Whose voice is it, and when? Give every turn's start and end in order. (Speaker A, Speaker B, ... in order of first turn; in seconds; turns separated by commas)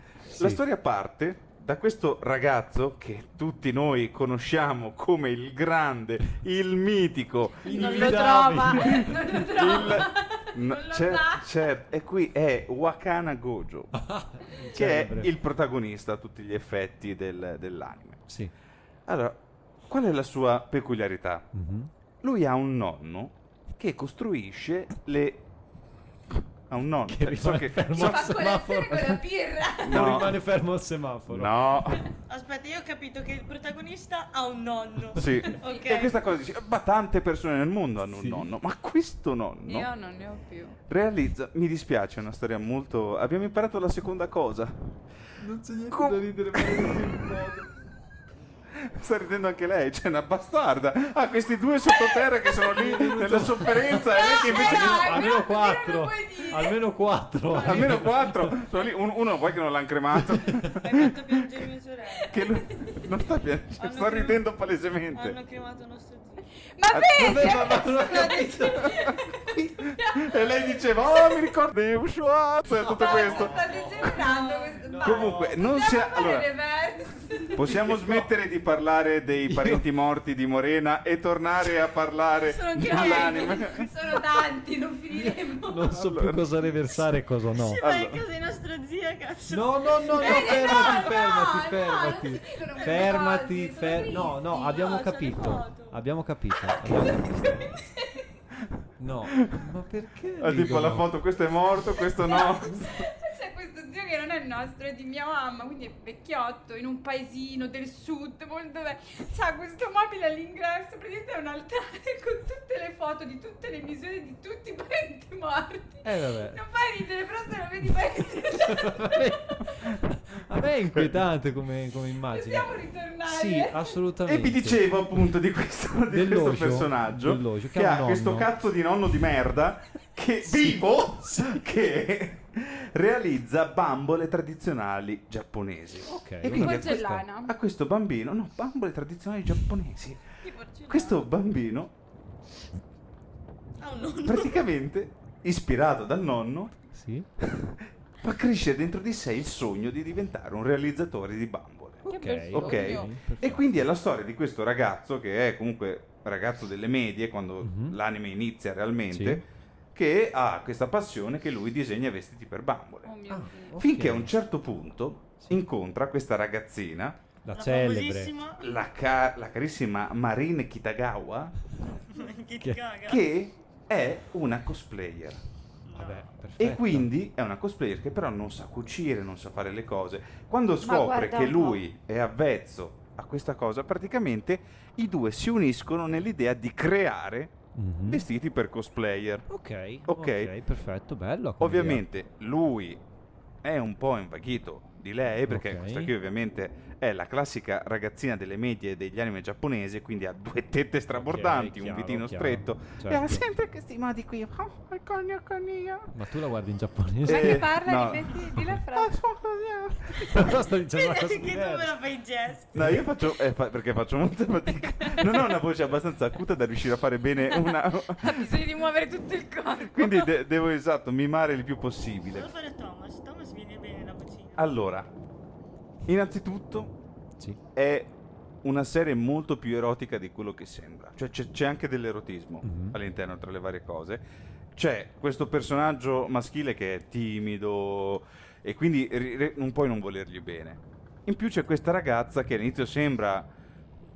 Speaker A: 0.3-0.6, Speaker B: 0.3-13.9, Speaker A: 7.6-9.1, Speaker C: 7.7-11.5, Speaker A: 13.9-15.3, Speaker B: 14.7-18.2, Speaker A: 18.3-18.5, Speaker B: 19.1-21.5, Speaker A: 21.5-21.9, Speaker B: 22.2-25.4, Speaker B: 26.7-29.2, Speaker A: 27.1-29.1, Speaker C: 28.0-30.1, Speaker A: 29.8-31.5, Speaker B: 29.8-30.4, Speaker B: 31.3-32.1, Speaker D: 32.3-36.2, Speaker B: 35.1-39.9, Speaker A: 38.0-38.5, Speaker C: 39.7-40.8, Speaker B: 40.9-45.0, Speaker A: 45.4-47.7, Speaker B: 45.9-47.2, Speaker B: 48.7-55.3, Speaker C: 52.0-52.2, Speaker A: 52.7-58.6, Speaker C: 53.9-56.8, Speaker D: 57.5-58.1, Speaker B: 57.6-61.4, Speaker D: 60.6-62.3, Speaker C: 62.3-63.1, Speaker B: 62.3-65.4, Speaker D: 63.8-64.5, Speaker D: 65.1-66.5, Speaker C: 66.7-71.4, Speaker B: 66.9-69.2, Speaker A: 67.2-69.7, Speaker B: 70.0-74.1, Speaker A: 72.8-74.3, Speaker C: 73.0-77.7, Speaker D: 74.2-74.8, Speaker A: 74.8-75.6, Speaker B: 75.0-76.5, Speaker B: 77.5-83.9, Speaker A: 77.7-78.3, Speaker A: 79.5-79.8, Speaker C: 82.4-85.9, Speaker A: 85.1-87.8, Speaker B: 85.9-87.0, Speaker D: 87.5-91.2, Speaker B: 87.8-88.2, Speaker A: 89.5-97.7, Speaker C: 90.2-94.8, Speaker D: 92.8-93.2, Speaker D: 94.6-96.0, Speaker C: 96.9-98.2, Speaker A: 99.0-101.1, Speaker B: 100.4-103.1, Speaker C: 102.0-119.6, Speaker A: 116.0-116.6, Speaker A: 118.7-125.2, Speaker C: 122.3-124.0, Speaker B: 124.2-140.3, Speaker A: 126.1-128.5, Speaker A: 130.4-131.5, Speaker A: 136.1-137.2, Speaker C: 136.5-137.5, Speaker D: 140.4-141.2, Speaker B: 140.9-141.9, Speaker D: 143.8-144.7, Speaker B: 144.3-146.8, Speaker A: 146.9-147.7, Speaker B: 148.2-163.1, Speaker C: 152.1-153.2, Speaker A: 152.1-153.8, Speaker A: 157.6-158.0, Speaker A: 159.1-159.4, Speaker C: 163.1-163.8, Speaker A: 163.3-164.3, Speaker B: 163.8-167.2, Speaker A: 167.4-168.3, Speaker D: 167.5-168.7, Speaker B: 168.6-171.6, Speaker D: 172.1-173.3, Speaker B: 173.1-175.4, Speaker D: 175.8-176.2, Speaker A: 175.9-177.1, Speaker B: 176.6-187.6, Speaker C: 180.8-181.8, Speaker A: 187.8-188.2, Speaker B: 188.1-189.5, Speaker A: 189.5-192.0, Speaker B: 190.1-190.5, Speaker B: 191.6-193.0, Speaker B: 193.6-206.1, Speaker A: 195.5-196.1, Speaker A: 201.1-203.4, Speaker A: 206.1-207.7, Speaker C: 207.2-209.2, Speaker B: 207.2-210.6, Speaker C: 210.1-210.7, Speaker A: 210.3-212.0, Speaker D: 210.9-212.8, Speaker B: 212.7-218.7, Speaker A: 212.8-213.1, Speaker C: 215.0-215.6, Speaker C: 217.5-220.3, Speaker B: 219.8-222.5, Speaker D: 222.3-224.7, Speaker B: 224.6-225.1, Speaker B: 226.1-226.9, Speaker B: 227.8-228.1, Speaker B: 228.6-234.2, Speaker A: 232.6-233.0, Speaker B: 234.8-243.5